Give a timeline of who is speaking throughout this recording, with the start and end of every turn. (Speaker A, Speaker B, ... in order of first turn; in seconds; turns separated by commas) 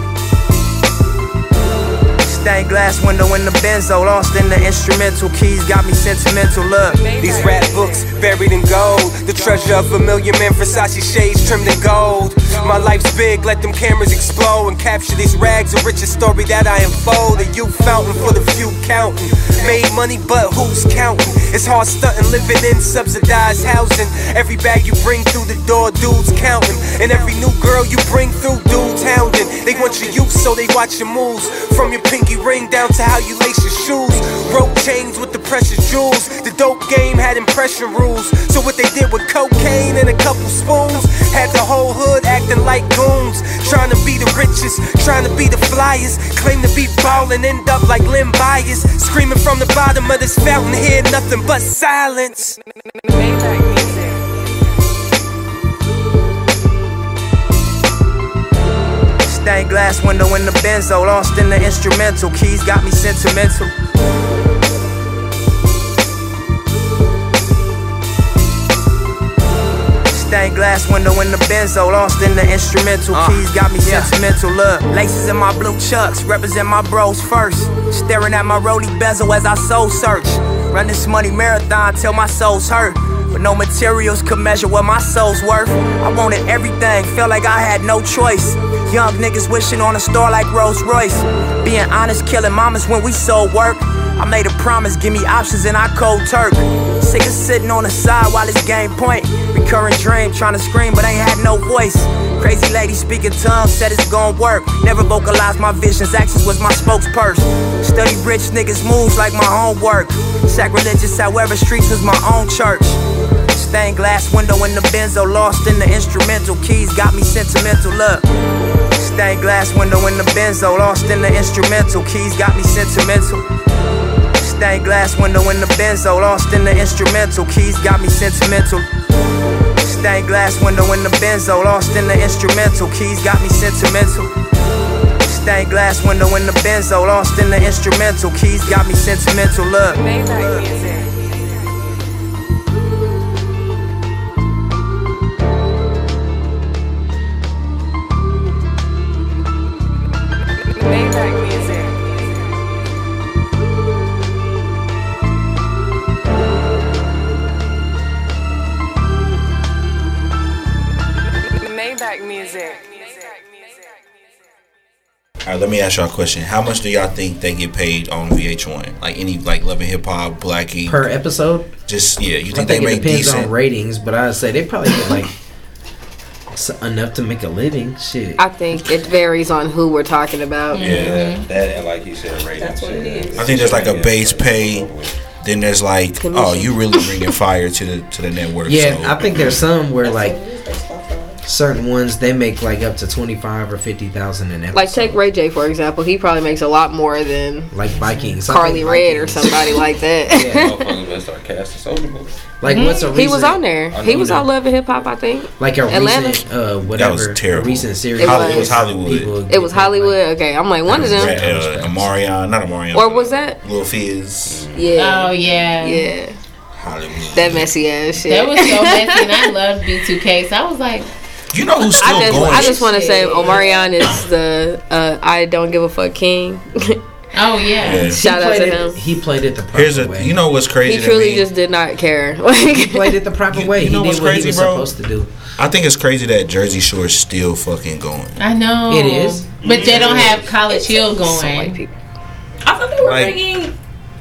Speaker A: 2.2-7.2, Speaker B: 7.1-52.6, Speaker A: 59.2-63.7, Speaker A: 70.1-113.0, Speaker A: 113.5-118.3, Speaker A: 119.0-123.4, Speaker A: 124.4-128.9, Speaker A: 129.8-134.3, Speaker A: 135.2-140.8, Speaker C: 165.4-171.1, Speaker D: 170.9-171.7, Speaker C: 171.9-173.5, Speaker D: 172.5-175.3, Speaker D: 176.5-178.4, Speaker E: 178.4-181.0, Speaker F: 180.7-181.5, Speaker G: 180.8-185.2, Speaker H: 182.6-183.8, Speaker C: 183.4-184.9, Speaker C: 185.4-189.5, Speaker E: 186.2-187.3, Speaker D: 188.7-190.4, Speaker H: 190.0-191.4, Speaker D: 191.4-195.2, Speaker E: 194.7-197.7, Speaker D: 197.7-199.6, Speaker F: 197.9-198.4, Speaker E: 198.5-200.8, Speaker D: 200.3-200.7, Speaker G: 200.3-202.3, Speaker D: 202.6-204.5, Speaker F: 202.7-203.2, Speaker E: 202.7-206.4, Speaker G: 203.9-204.4, Speaker D: 205.6-210.2, Speaker C: 207.0-209.3, Speaker E: 208.2-208.8, Speaker E: 209.5-211.4, Speaker C: 210.9-214.7, Speaker D: 210.9-212.1, Speaker E: 212.9-213.6, Speaker G: 214.5-214.9, Speaker E: 214.8-216.4, Speaker F: 214.9-216.1, Speaker C: 216.8-217.7, Speaker E: 217.3-219.5, Speaker F: 218.2-221.1, Speaker C: 221.5-222.7, Speaker E: 221.9-227.0, Speaker F: 222.4-223.8, Speaker H: 222.6-223.9, Speaker F: 227.3-228.1, Speaker C: 227.8-228.2, Speaker E: 227.9-229.0, Speaker D: 228.2-230.3, Speaker C: 229.7-231.5, Speaker E: 230.8-233.2, Speaker D: 232.7-235.3, Speaker C: 233.5-234.9, Speaker C: 235.6-238.4, Speaker F: 238.4-241.8, Speaker D: 238.9-239.5, Speaker C: 239.6-240.3, Speaker G: 239.7-240.4, Speaker H: 239.8-240.1, Speaker H: 240.7-241.0, Speaker E: 241.2-241.9, Speaker H: 242.7-243.7, Speaker C: 243.0-243.4